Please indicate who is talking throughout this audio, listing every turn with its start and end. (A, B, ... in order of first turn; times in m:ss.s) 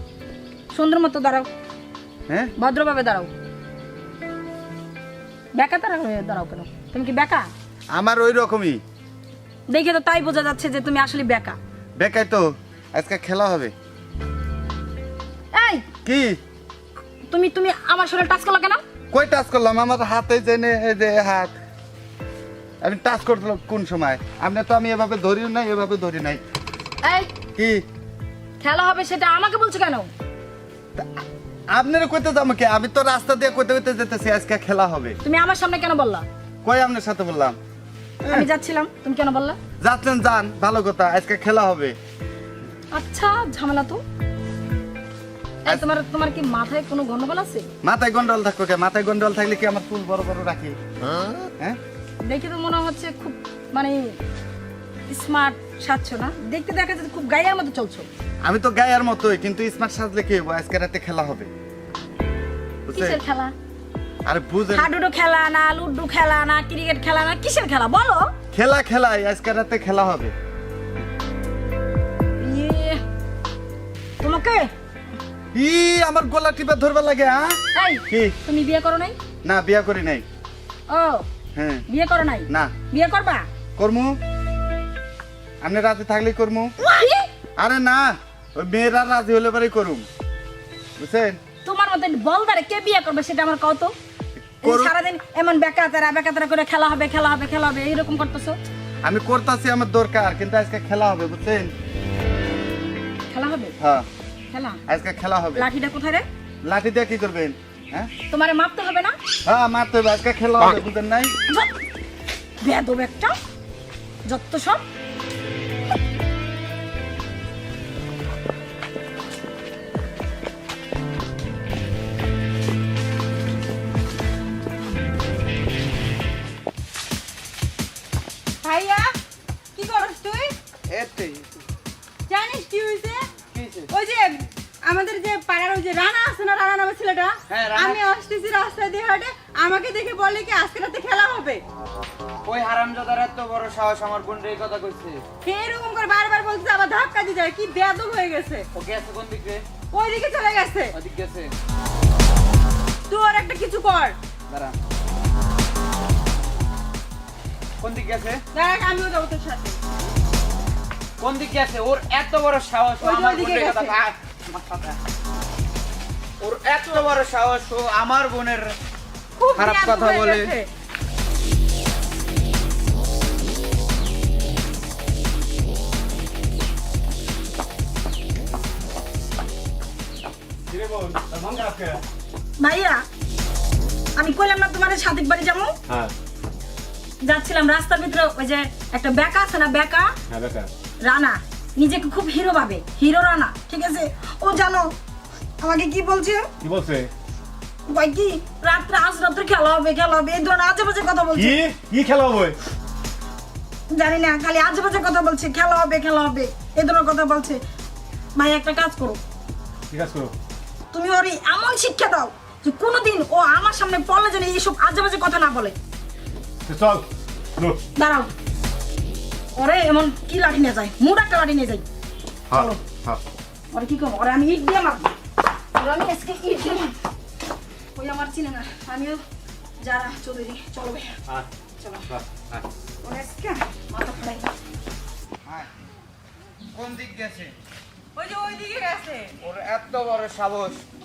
0:00.7-0:01.5 A
0:02.6-0:03.3 A
0:05.5-0:07.5 A
0:07.9-0:08.8 B
0:09.7-0:11.6 A
0:12.0-0:13.7 B
0:15.5-0:15.8 A
0:16.0-0:16.4 B
0:17.3-0:18.8 A
0:19.1-0:21.5 B
0:22.8-0:26.4 B
0:27.0-0:27.3 A
0:27.6-0:27.8 B
0:28.6-0:30.1 A
0:31.0-0:31.2 B
0:31.7-0:35.2 B
0:35.2-0:36.2 A
0:36.6-0:37.6 B
0:38.2-0:38.5 B
0:38.3-0:39.6 A
0:39.8-0:42.0 B
0:42.9-0:44.0 A
0:45.6-0:47.7 A
0:47.8-0:50.8 B
0:52.2-0:54.1 A
0:55.1-0:58.1 A
0:58.4-1:01.5 B
1:02.9-1:03.2 B
1:02.9-1:03.5 A
1:04.2-1:04.9 B
1:04.7-1:08.3 A
1:08.5-1:10.3 B
1:12.4-1:13.0 A
1:14.2-1:14.7 A
1:15.5-1:18.3 B
1:17.7-1:19.2 A
1:19.4-1:20.2 B
1:20.9-1:21.2 A
1:21.5-1:21.8 B
1:21.9-1:23.5 A
1:23.8-1:24.2 B
1:25.6-1:26.7 B
1:26.8-1:27.3 A
1:27.6-1:30.0 B
1:31.0-1:31.4 B
1:31.6-1:33.9 A
1:34.6-1:34.9 B
1:34.6-1:38.6 A
1:39.0-1:41.7 B
1:43.3-1:43.7 A
1:43.8-1:44.0 B
1:44.5-1:44.8 A
1:44.9-1:45.7 B
1:45.6-1:46.2 A
1:46.6-1:48.1 B
1:48.3-1:49.1 A
1:49.4-1:51.3 B
1:52.6-1:53.4 A
1:54.2-1:54.8 A
2:08.6-2:09.2 C
2:09.8-2:10.6 C
2:10.9-2:11.5 D
2:12.3-2:13.3 C
2:13.5-2:13.9 D
2:13.9-2:21.6 C
2:17.5-2:18.0 D
2:22.4-2:25.2 D
2:25.4-2:28.7 C
2:28.7-2:29.6 D
2:29.9-2:31.0 C
2:30.9-2:31.5 D
2:33.1-2:34.2 C
2:34.5-2:34.8 D
2:37.8-2:38.4 D
2:38.5-2:39.8 C
2:41.2-2:45.0 D
2:43.0-2:44.0 C
2:46.4-2:48.8 D
2:49.4-2:50.7 C
2:49.6-2:50.5 D
3:00.7-3:02.0 E
3:02.6-3:03.0 A
3:04.2-3:05.8 A
3:07.2-3:10.1 A
3:10.3-3:10.7 E
3:11.0-3:14.9 A
3:15.6-3:16.5 A
3:16.6-3:17.1 E
3:17.9-3:21.6 A
3:21.4-3:22.5 E
3:23.9-3:27.6 A
3:28.3-3:29.2 A
3:29.9-3:30.3 E
3:30.9-3:35.7 A
3:36.7-3:37.0 E
3:37.9-3:38.3 A
3:39.5-3:41.8 A
3:42.5-3:43.2 B
3:42.5-3:42.8 A
3:43.7-3:45.1 A
3:45.7-3:46.9 A
3:47.9-3:49.2 A
3:49.8-3:51.2 A
3:51.8-3:52.1 A
3:53.0-3:54.5 A
3:56.7-3:57.5 D
3:58.1-3:59.4 C
3:59.4-4:00.8 D